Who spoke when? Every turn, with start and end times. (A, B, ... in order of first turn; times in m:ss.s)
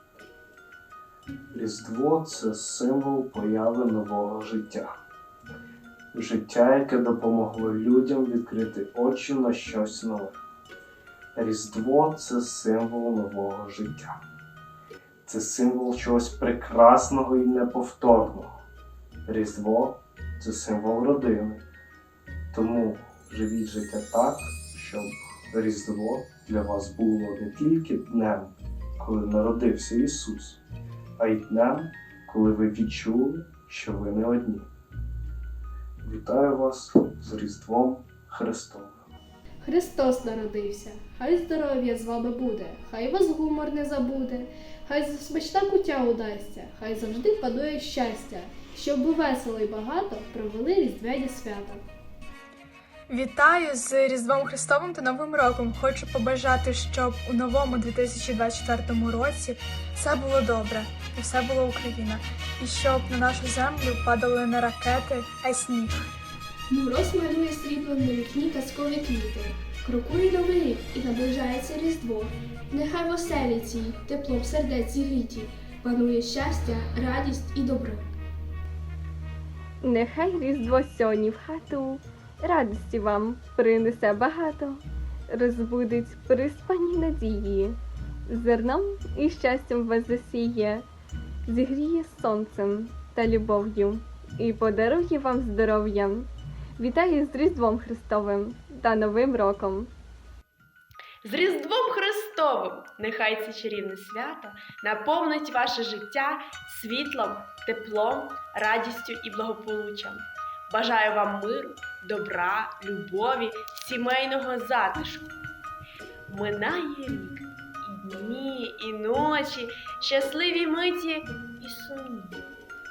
0:01.5-0:04.9 A
0:06.1-0:10.4 A
0:11.4-0:14.2 A
0:15.3-0:18.6 A
0:19.3-0:21.6 A
0:22.5-0:30.6 A
0:31.2-0:34.7 A
0:36.0-0:39.1 A
0:39.6-0:51.8 B
0:53.1-1:06.1 C
1:06.7-1:18.1 B
1:19.8-1:30.9 D
1:31.5-1:39.9 D
1:41.2-1:55.4 E
1:56.3-2:02.5 E